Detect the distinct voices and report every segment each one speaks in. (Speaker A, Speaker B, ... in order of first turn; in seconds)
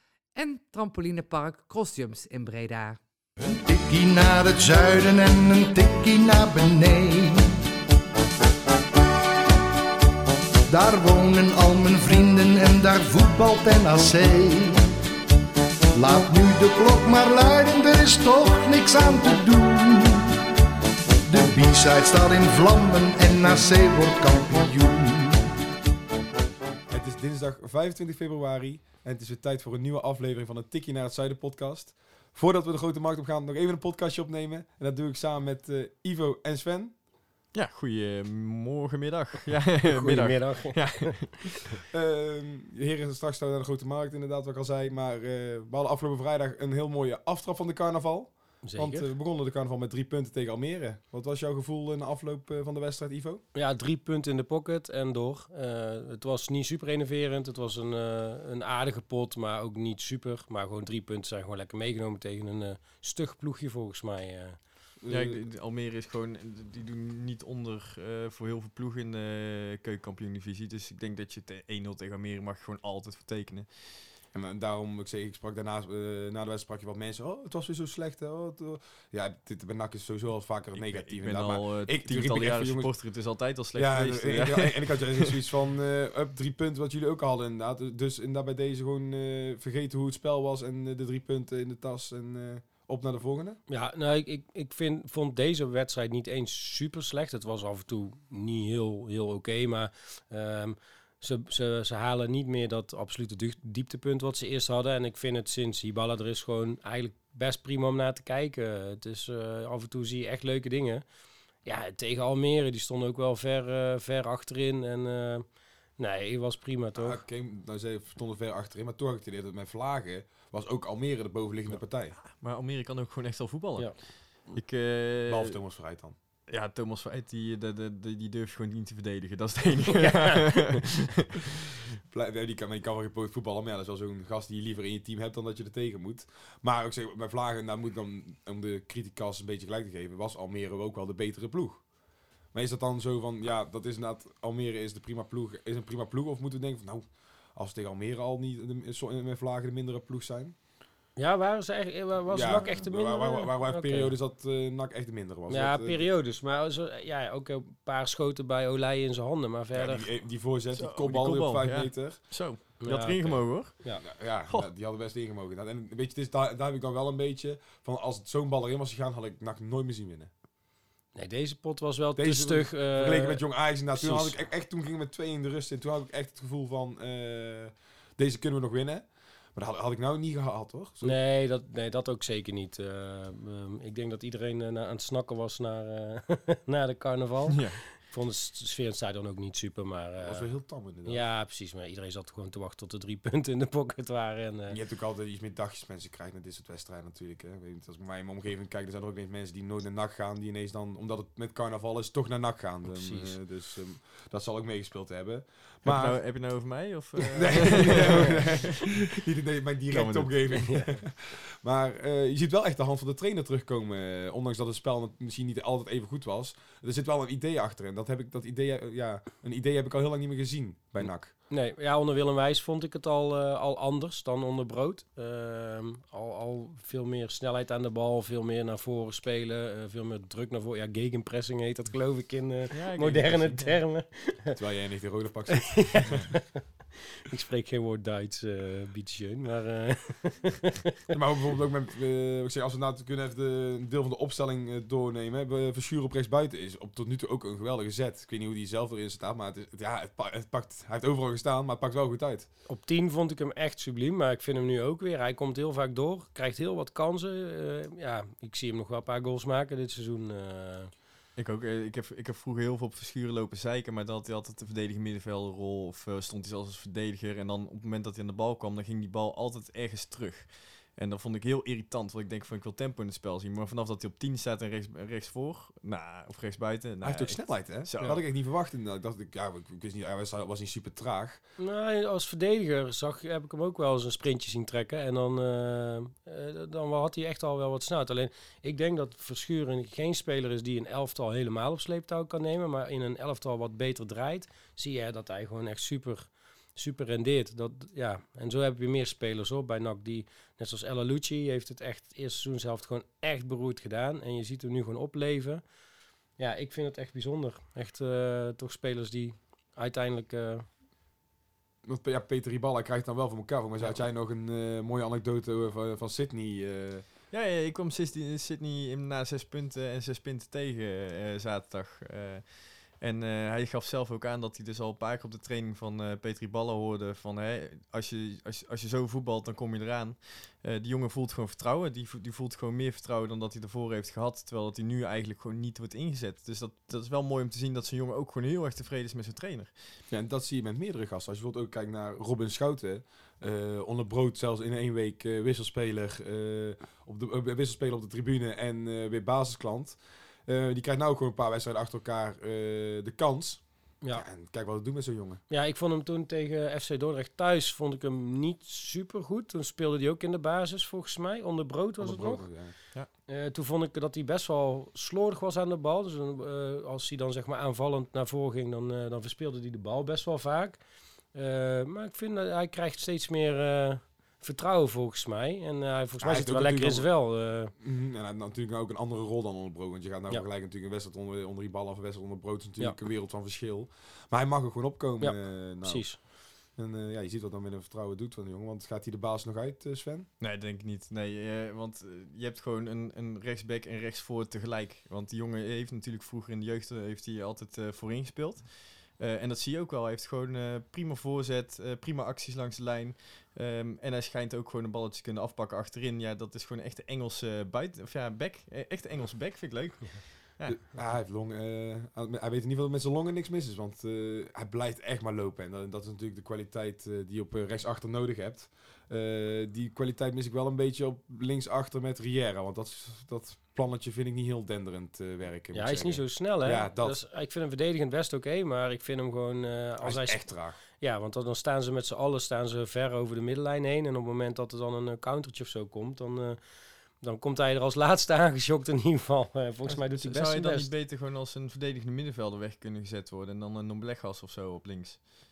Speaker A: 0.3-3.0
Speaker B: 3.5-7.5, 10.7-14.9, 15.9-20.4, 21.3-25.5
Speaker C: 26.9-37.0, 41.9-53.4, 65.0-65.4, 74.3-82.9, 83.8-93.6, 117.0-122.2, 125.0-126.2, 132.1-141.8, 142.5-150.5, 152.3-156.1, 159.7-162.2, 164.0-170.3, 172.2-181.2, 190.2-191.2, 194.7-206.4, 207.3-221.3, 234.5-236.1, 241.1-252.5, 277.0-281.4, 311.8-317.1, 340.1-355.4, 362.0-362.8, 376.2-377.2, 377.8-390.3, 410.6-427.2, 430.0-430.8
Speaker D: 37.5-41.6, 65.1-74.0, 80.8-85.4, 121.7-125.6, 126.5-131.5, 160.7-164.7, 187.5-187.8, 205.8-209.1, 209.9-210.8, 232.7-233.8, 236.0-236.3, 261.4-278.2, 317.3-339.9, 390.4-410.9, 439.9-445.2
Speaker E: 39.8-41.3, 48.6-49.1, 53.5-64.6, 93.7-111.0, 111.6-117.2, 151.2-154.1, 155.5-160.0, 162.8-164.0, 171.1-174.4, 181.0-190.5, 191.0-194.8, 202.9-203.3, 208.0-208.4, 221.5-234.5, 235.7-240.6, 252.7-260.9, 281.6-305.6, 306.4-310.7, 354.0-354.2, 355.5-377.7, 385.2-386.2, 425.7-436.6, 437.2-440.9